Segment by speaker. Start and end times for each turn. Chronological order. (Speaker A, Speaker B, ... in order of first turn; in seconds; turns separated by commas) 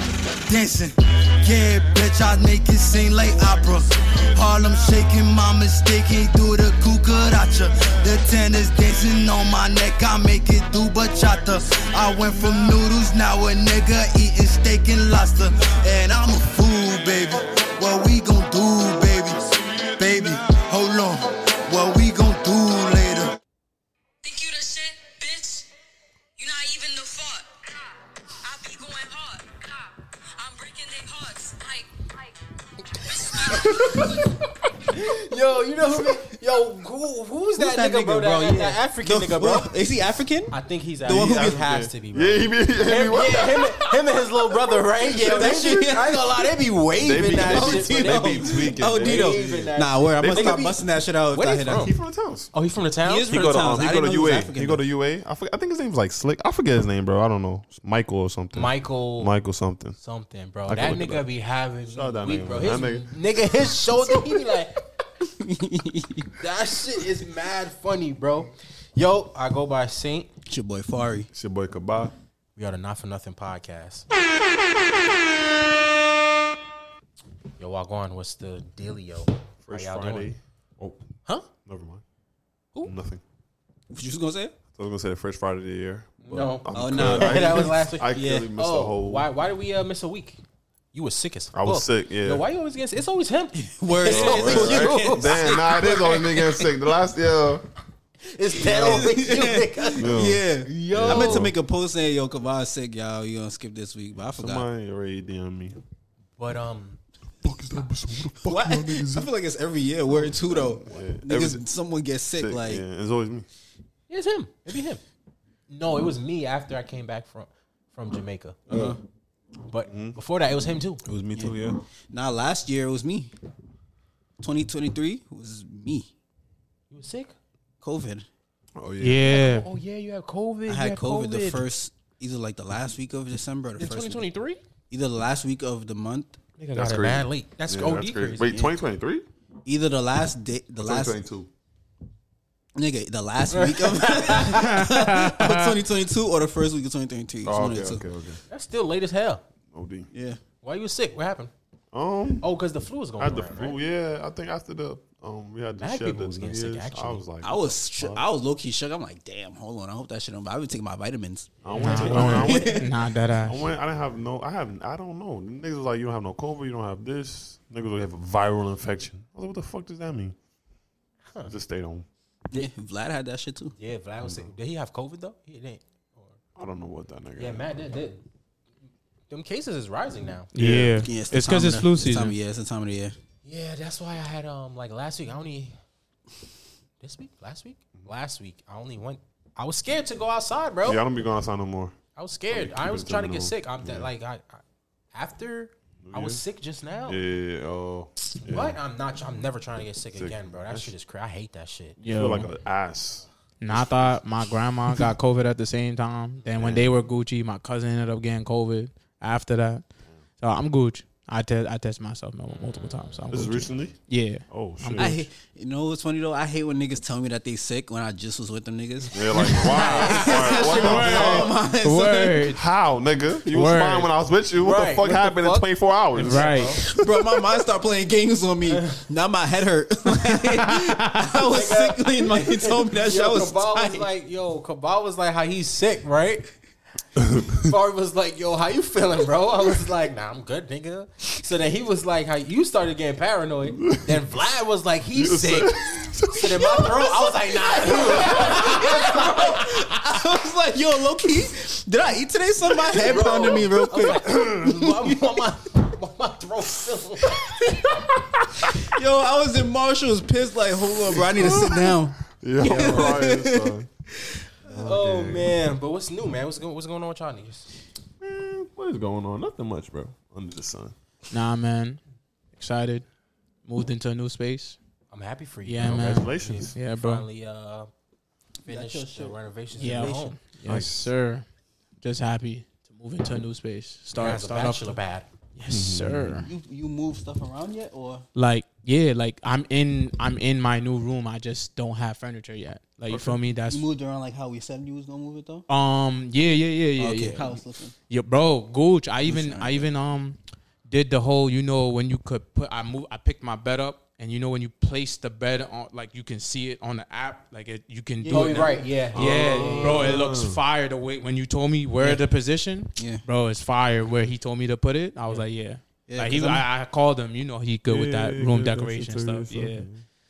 Speaker A: 0.4-23.4, Speaker B: 24.2-25.7, Speaker B: 26.4-27.8, Speaker B: 28.4-34.2, Speaker C: 33.3-34.2, Speaker C: 34.9-39.7, Speaker D: 37.5-41.6, Speaker C: 40.5-50.8, Speaker E: 41.0-43.8, Speaker D: 45.1-46.6, Speaker E: 47.0-50.7, Speaker D: 47.2-51.9, Speaker C: 51.3-51.9, Speaker E: 51.7-52.5, Speaker C: 52.5-53.3, Speaker D: 53.0-54.8, Speaker E: 53.3-60.0, Speaker C: 58.5-59.3, Speaker C: 60.0-64.8, Speaker E: 60.7-61.2, Speaker E: 61.9-64.2, Speaker D: 65.2-66.3, Speaker C: 66.4-70.3, Speaker D: 70.5-71.3, Speaker E: 71.3-72.1, Speaker C: 72.5-74.1, Speaker C: 77.6-80.3, Speaker E: 79.6-81.0, Speaker E: 81.6-82.0, Speaker E: 82.8-83.2, Speaker D: 83.9-84.5, Speaker E: 84.7-89.3, Speaker C: 86.2-90.4, Speaker D: 86.7-88.5, Speaker C: 90.9-96.7, Speaker E: 91.5-92.4, Speaker D: 93.6-95.6, Speaker E: 94.0-97.7, Speaker C: 98.2-101.5, Speaker D: 98.6-104.7, Speaker E: 98.7-99.1, Speaker E: 100.0-101.5, Speaker E: 104.2-105.8, Speaker C: 106.4-107.0, Speaker E: 107.4-109.3, Speaker D: 108.4-112.8, Speaker E: 110.5-111.6, Speaker E: 112.4-113.5, Speaker C: 114.1-115.0, Speaker C: 115.7-118.6, Speaker E: 118.7-119.0, Speaker D: 118.7-119.0, Speaker C: 119.7-121.0, Speaker E: 119.9-120.2, Speaker E: 121.0-121.8, Speaker D: 121.3-123.3, Speaker D: 124.4-126.1, Speaker C: 126.9-127.3, Speaker D: 127.8-128.3, Speaker E: 128.8-129.3, Speaker F: 129.0-129.7, Speaker C: 129.2-131.7, Speaker D: 130.7-134.3, Speaker C: 133.8-134.6, Speaker D: 134.9-136.4, Speaker C: 136.6-138.6, Speaker E: 136.7-139.2, Speaker D: 138.5-138.8, Speaker D: 139.6-141.2, Speaker E: 140.8-141.5, Speaker D: 142.8-148.0, Speaker C: 143.5-144.9, Speaker F: 144.5-145.8, Speaker E: 147.4-148.4, Speaker C: 148.5-149.4, Speaker E: 149.7-150.1, Speaker D: 150.1-150.4, Speaker C: 150.6-151.5, Speaker E: 151.9-152.4, Speaker C: 152.4-153.8, Speaker E: 153.2-158.2, Speaker C: 155.8-157.2, Speaker D: 157.4-162.9, Speaker E: 161.6-162.9, Speaker F: 161.8-163.7, Speaker E: 163.4-170.3, Speaker E: 171.4-172.1, Speaker D: 172.5-173.7, Speaker C: 173.8-176.4, Speaker E: 174.2-174.5, Speaker E: 176.6-177.7, Speaker C: 177.3-178.2, Speaker C: 179.3-180.5, Speaker F: 180.5-182.3, Speaker E: 180.6-181.0, Speaker D: 180.9-183.2, Speaker C: 183.4-185.8, Speaker C: 187.0-191.0, Speaker E: 190.8-191.9, Speaker C: 192.2-197.2, Speaker E: 192.5-194.1, Speaker E: 196.0-196.4, Speaker E: 197.1-198.8, Speaker C: 198.4-202.0, Speaker E: 200.1-200.9, Speaker F: 202.0-202.5, Speaker E: 202.0-204.2, Speaker F: 203.6-209.8, Speaker E: 206.6-207.0, Speaker F: 210.4-215.2, Speaker E: 213.3-215.2, Speaker D: 215.0-222.5, Speaker E: 219.1-221.5, Speaker C: 219.7-220.7, Speaker F: 219.9-222.6, Speaker E: 222.5-226.9, Speaker F: 223.4-224.1, Speaker C: 224.6-227.0, Speaker F: 226.2-226.8, Speaker D: 226.8-234.1, Speaker C: 228.7-229.0, Speaker F: 230.4-231.3, Speaker C: 231.4-236.6, Speaker E: 237.2-237.6, Speaker C: 237.4-250.0, Speaker E: 243.8-244.2, Speaker E: 245.1-249.1, Speaker D: 247.9-255.4, Speaker E: 252.8-254.6, Speaker C: 252.8-257.9, Speaker E: 258.0-258.7, Speaker D: 258.8-264.4, Speaker E: 261.1-263.9, Speaker C: 262.6-263.2, Speaker E: 264.6-265.6, Speaker C: 264.7-267.7, Speaker E: 268.2-270.9, Speaker F: 271.3-272.0, Speaker F: 272.6-273.1, Speaker F: 273.6-274.8, Speaker C: 275.1-277.9, Speaker F: 275.6-277.2, Speaker E: 275.8-276.7, Speaker C: 278.6-280.4, Speaker D: 278.7-280.3, Speaker F: 279.8-281.4, Speaker E: 280.6-281.1, Speaker F: 282.0-285.0, Speaker C: 284.1-285.3, Speaker F: 285.6-286.5, Speaker E: 285.7-286.4, Speaker D: 286.4-288.2, Speaker F: 288.3-293.9, Speaker E: 293.1-293.4, Speaker D: 293.7-295.6, Speaker F: 295.7-319.9, Speaker D: 297.0-297.9, Speaker D: 299.2-299.9, Speaker D: 308.2-308.9, Speaker C: 308.3-310.2, Speaker E: 309.1-310.6, Speaker D: 313.0-313.2, Speaker D: 316.1-316.6, Speaker E: 317.9-320.0